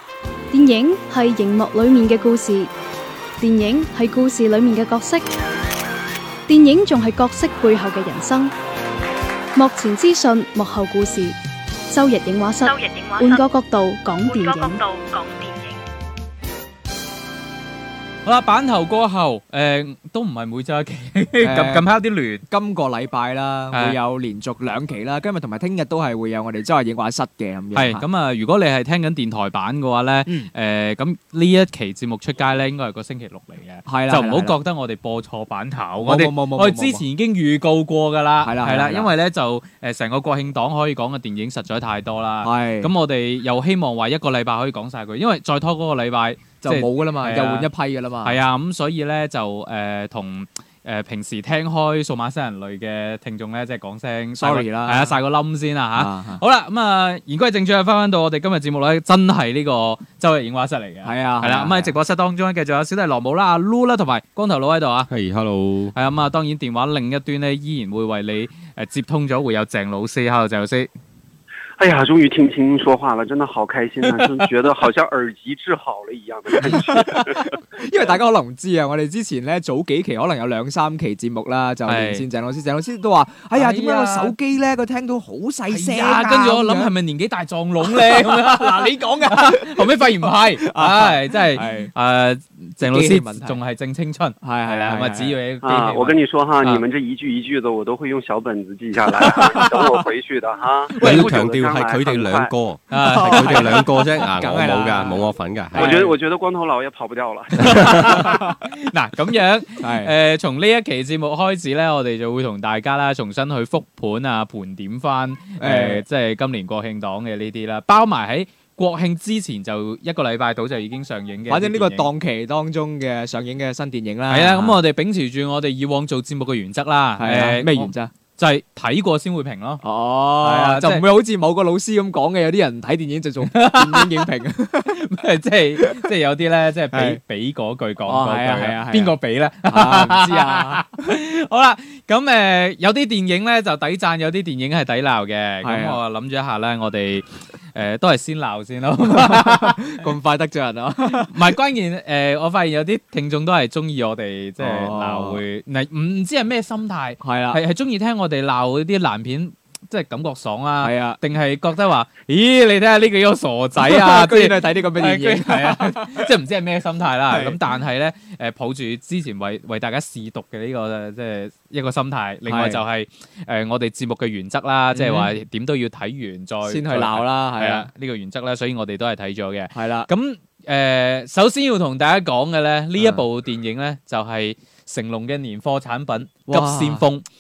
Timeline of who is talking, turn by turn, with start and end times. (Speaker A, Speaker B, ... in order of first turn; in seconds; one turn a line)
Speaker A: 0.5-2.7
Speaker A: 3.4-5.2
Speaker A: 6.5-8.5
Speaker A: 9.6-11.4
Speaker A: 11.9-14.8
Speaker B: 12.6-13.5
Speaker B: 14.2-15.8
Speaker C: 18.2-22.4
Speaker D: 21.4-21.9
Speaker D: 22.5-28.1
Speaker C: 23.7-24.0
Speaker C: 27.7-47.7
Speaker D: 33.9-34.5
Speaker D: 36.0-37.0
Speaker D: 38.4-39.1
Speaker D: 42.4-42.9
Speaker D: 46.6-48.4
Speaker C: 48.2-65.1
Speaker D: 54.4-55.2
Speaker D: 56.0-56.4
Speaker D: 61.0-62.0
Speaker E: 65.1-66.0
Speaker C: 65.9-70.9
Speaker F: 71.8-77.5
Speaker C: 76.6-77.3
Speaker D: 76.7-86.9
Speaker C: 81.9-82.3
Speaker C: 83.5-84.3
Speaker C: 85.7-96.8
Speaker D: 87.8-91.9
Speaker D: 92.8-93.6
Speaker D: 94.4-95.4
Speaker F: 95.6-102.5
Speaker D: 99.2-100.0
Speaker D: 101.0-101.3
Speaker E: 101.0-106.1
Speaker C: 102.9-103.7
Speaker D: 103.0-106.1
Speaker F: 105.8-108.3
Speaker C: 107.6-122.1
Speaker D: 108.1-108.6
Speaker D: 109.8-110.1
Speaker D: 115.6-116.0
Speaker D: 121.5-124.8
Speaker C: 124.3-129.8
Speaker D: 127.2-128.1
Speaker D: 129.8-135.0
Speaker C: 130.4-131.0
Speaker C: 133.5-134.3
Speaker C: 134.9-149.9
Speaker D: 136.9-137.2
Speaker D: 138.1-141.0
Speaker D: 145.6-146.0
Speaker D: 149.1-151.3
Speaker C: 151.2-187.3
Speaker D: 154.6-155.4
Speaker D: 157.2-157.6
Speaker D: 160.8-161.2
Speaker D: 163.8-166.3
Speaker D: 167.3-167.6
Speaker D: 172.5-172.8
Speaker D: 174.9-175.3
Speaker D: 176.6-177.9
Speaker D: 179.7-180.1
Speaker D: 183.0-183.2
Speaker D: 186.5-187.1